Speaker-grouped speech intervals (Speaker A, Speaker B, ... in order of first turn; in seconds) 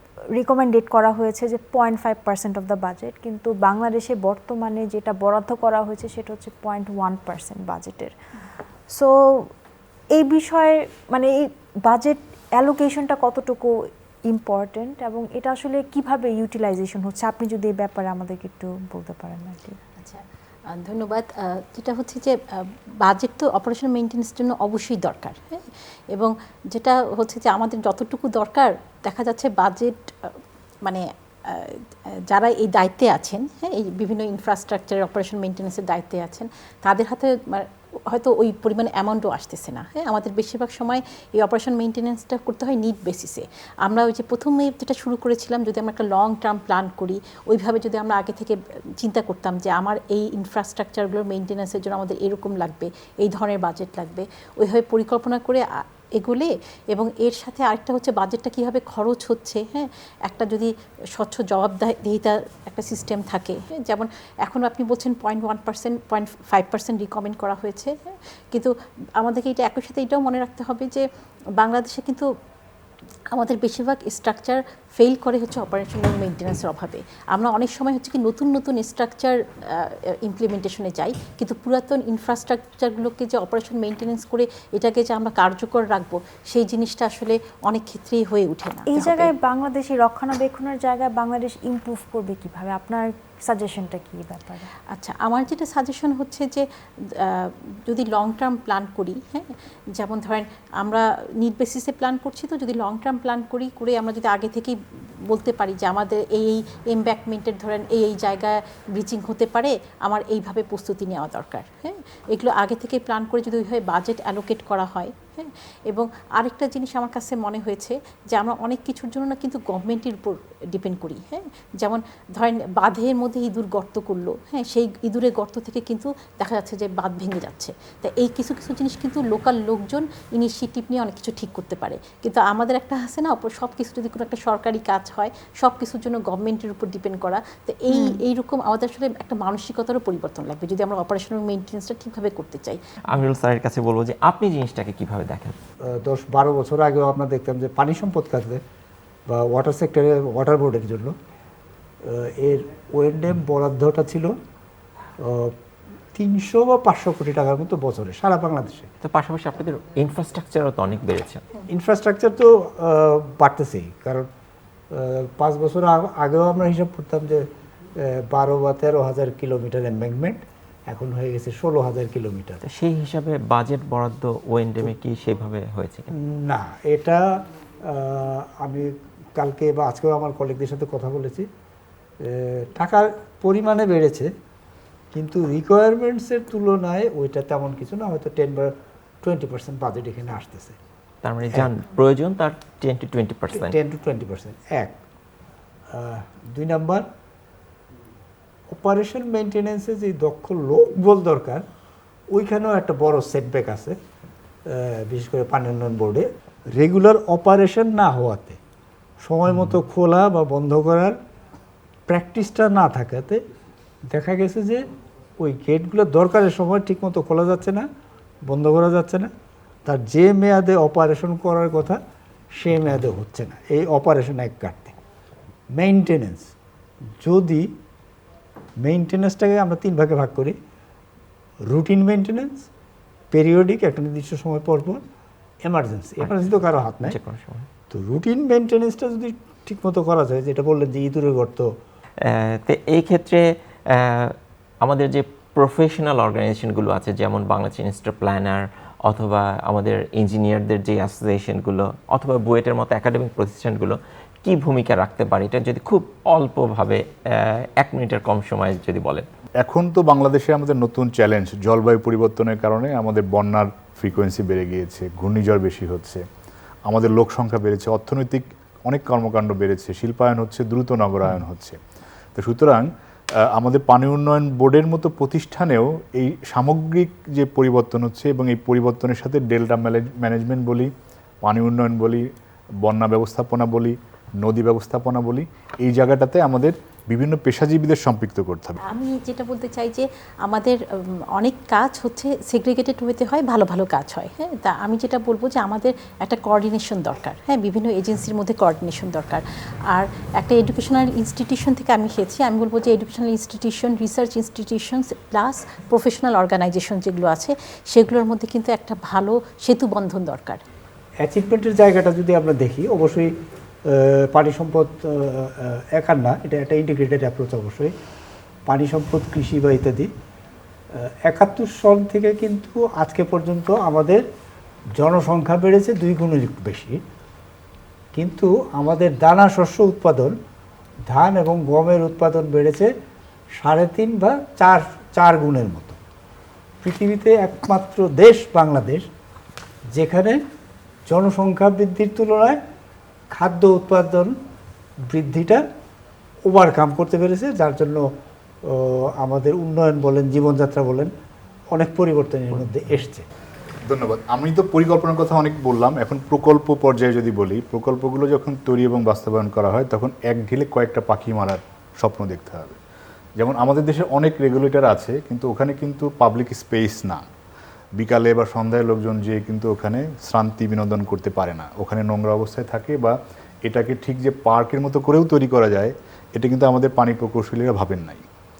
Speaker A: 0.3-8.1, 8.9-9.5, 10.1-19.8, 88.9-94.7, 137.9-138.2
Speaker B: 20.0-71.0, 71.6-72.3, 73.3-89.3, 94.9-142.8, 288.8-310.6
Speaker C: 143.1-145.6, 159.0-161.4, 172.6-176.1, 191.2-193.8, 236.2-237.7, 242.2-259.3
Speaker D: 145.8-148.6, 149.3-151.1, 152.0-154.3, 155.2-155.6, 156.1-158.9, 161.7-164.3, 164.9-172.6, 176.1-181.5, 182.2-184.3, 185.1-190.8, 193.5-195.0, 195.9-197.1, 198.7-201.7, 202.3-204.0, 204.7-208.6, 209.2-211.2, 212.1-213.4, 214.1-214.8, 215.4-217.9, 218.4-219.3, 219.8-222.0, 222.5-225.0, 225.7-226.5, 227.2-227.8, 228.8-230.6, 231.6-232.7, 233.3-235.0, 235.6-237.2, 237.9-241.7, 311.2-317.9, 318.7-320.1, 320.9-324.2, 324.9-327.0, 328.1-330.4, 331.1-332.9, 333.6-336.0, 336.8-339.1, 339.9-340.4, 341.1-342.6, 343.3-344.4, 345.0-345.6, 346.4-348.1, 348.6-351.1, 351.7-353.3
Speaker E: 259.6-266.2, 266.9-271.8, 272.3-272.9, 273.5-280.9, 281.4-282.3, 282.8-288.8, 353.8-362.8, 363.4-367.3, 368.0-378.2